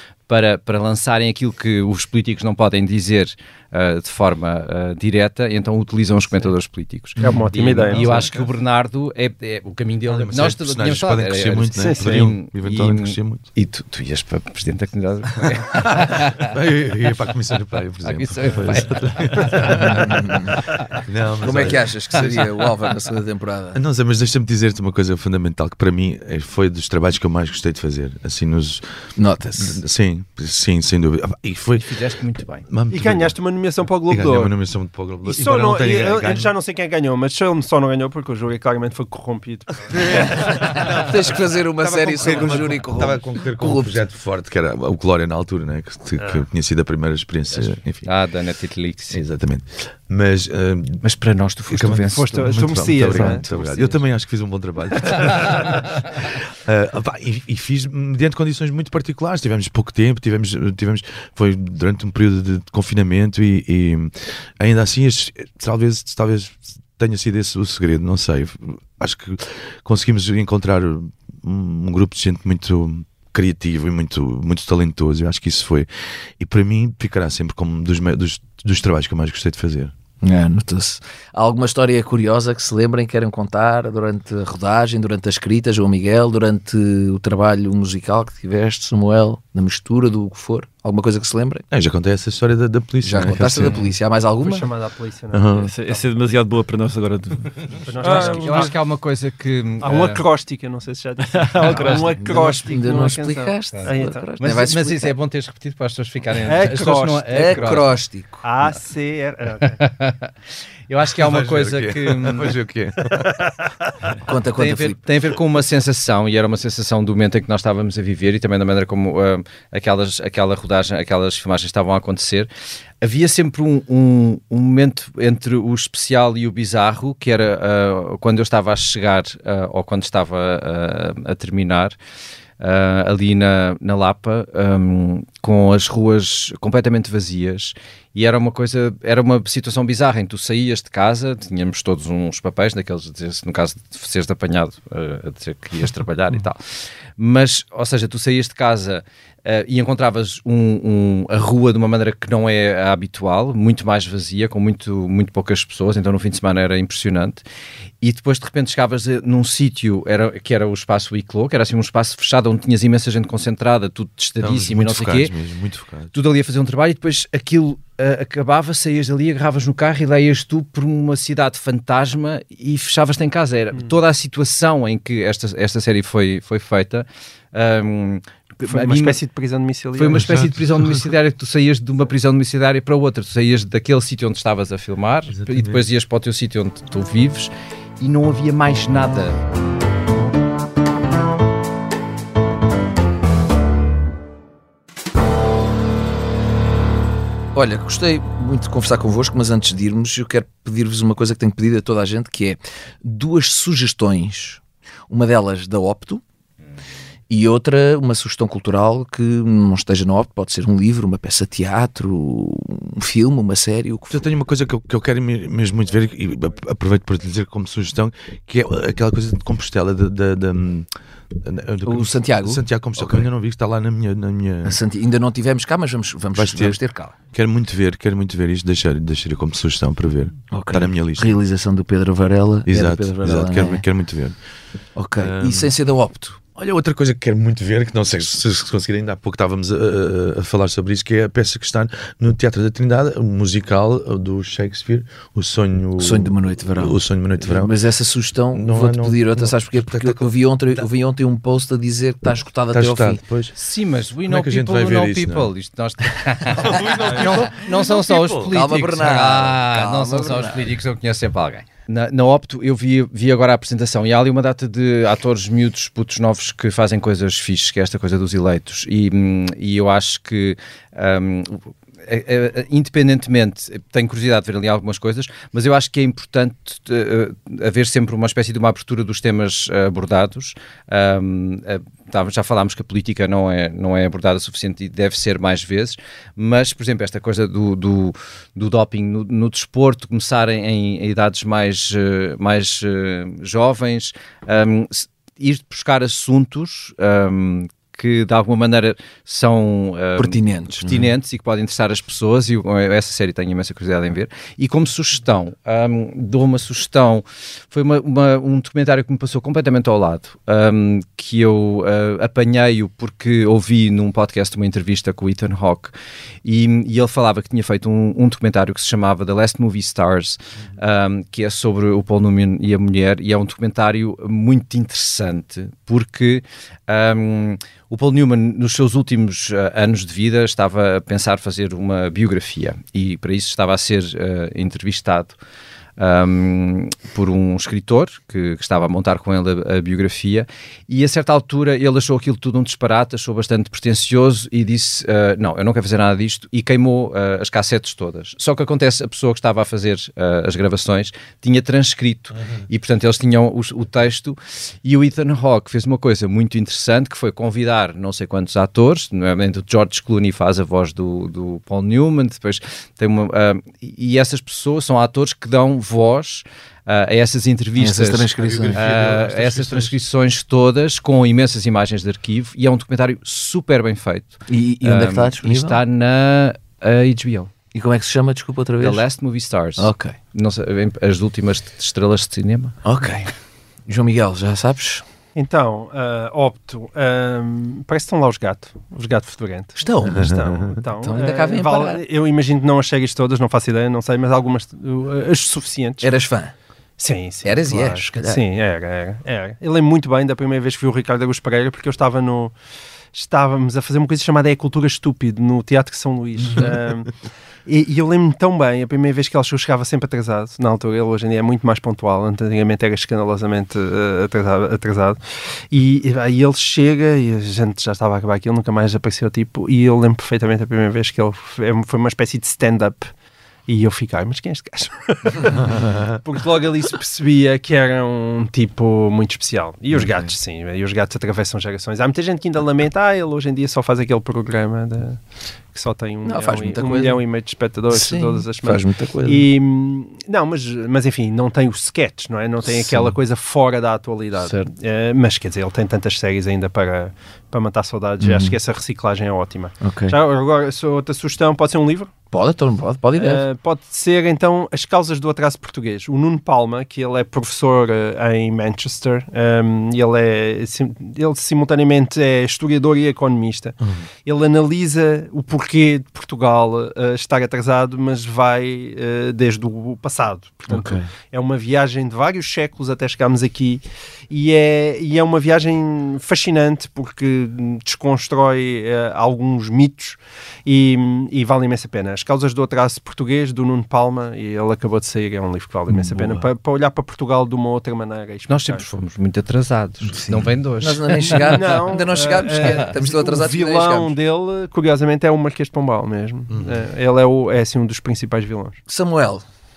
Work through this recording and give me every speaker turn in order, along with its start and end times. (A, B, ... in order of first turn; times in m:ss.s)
0:00.3-0:16.5 A
0:07.2-0:08.3 B
0:08.0-0:08.4 C
0:10.1-0:13.5 C
0:11.8-0:12.3 B
0:15.9-0:20.4 C
0:18.0-0:20.0 A
0:19.8-0:20.6 D
0:21.0-0:22.4 C
0:21.4-0:23.8 D
0:23.7-0:36.5 C
0:29.2-0:29.8 D
0:31.8-0:32.7 A
0:32.9-0:34.5 B
0:35.2-0:40.4 B
0:39.9-0:41.1 C
0:40.1-0:44.0 D
0:41.8-0:48.1 C
0:47.5-0:49.2 A
0:49.1-0:51.0 C
0:51.0-0:53.9 A
0:51.7-1:19.9 C
0:52.1-0:53.9 B
1:20.2-1:31.6 D
1:31.7-1:33.8 C
1:33.0-1:34.7 D
1:34.4-1:36.1 B
1:35.3-1:35.7 C
1:35.7-1:38.7 E
1:37.9-1:38.8 B
1:38.0-1:40.2 A
1:39.8-1:44.7 B
1:41.3-1:42.1 E
1:42.2-1:45.1 D
1:44.4-1:47.9 A
1:46.4-1:47.9 B
1:47.3-1:48.4 D
1:48.4-1:49.8 B
1:49.6-1:52.5 A
1:51.2-1:53.3 C
1:54.2-1:55.0 D
1:54.6-2:02.5 A
2:03.0-2:12.0 A
2:12.6-2:37.4 A
2:38.0-2:45.3 A
2:44.4-2:46.1 C
2:46.1-2:59.2 A
2:58.6-3:00.3 B
3:00.0-3:09.4 A
3:00.1-3:01.1 C
3:05.3-3:05.8 C
3:17.5-3:26.2 D
3:27.3-3:34.3 D
3:34.1-3:44.8 C
3:41.8-3:43.3 D
3:44.6-3:47.2 D
3:46.4-3:46.8 C
3:47.3-3:51.4 C
3:50.5-3:53.8 D
3:52.7-3:54.4 C
3:55.0-3:56.4 D
3:55.2-3:55.7 C
3:56.6-4:07.7 C
4:06.0-4:13.2 D
4:08.5-4:10.9 C
4:12.7-4:13.6 C
4:13.6-5:35.4 A
4:14.3-4:15.5 C
4:16.5-4:18.6 C
4:18.5-4:20.7 D
5:00.2-5:01.1 D
5:36.0-6:17.5 A
6:07.8-6:08.8 D
6:08.4-6:10.0 C
6:14.5-6:15.8 D
6:17.7-6:19.0 D
6:18.8-6:22.8 A
6:19.8-6:20.2 D
6:22.8-6:23.3 D
6:23.9-6:25.0 D
6:25.4-6:36.1 B
6:29.8-6:32.0 D
6:30.1-6:30.8 C
6:36.0-6:36.5 D
6:37.0-6:42.5 B
6:37.4-6:38.4 D
6:43.1-6:47.1 B
6:47.7-7:03.1 B
7:03.7-7:15.2 B
7:09.9-7:10.3 D
7:15.7-7:32.1 B
7:16.2-7:17.2 D
7:17.9-7:19.5 D
7:22.6-7:23.2 D
7:28.2-7:28.6 D
7:29.8-7:30.2 D
7:32.3-7:33.4 D
7:33.2-8:09.0 B
7:43.8-7:44.1 C
7:50.7-7:51.1 D
8:05.9-8:06.5 D
8:08.5-8:11.6 A
8:10.0-8:14.2 D
8:11.2-8:18.8 B
8:16.5-8:16.8 C
8:18.9-8:19.4 D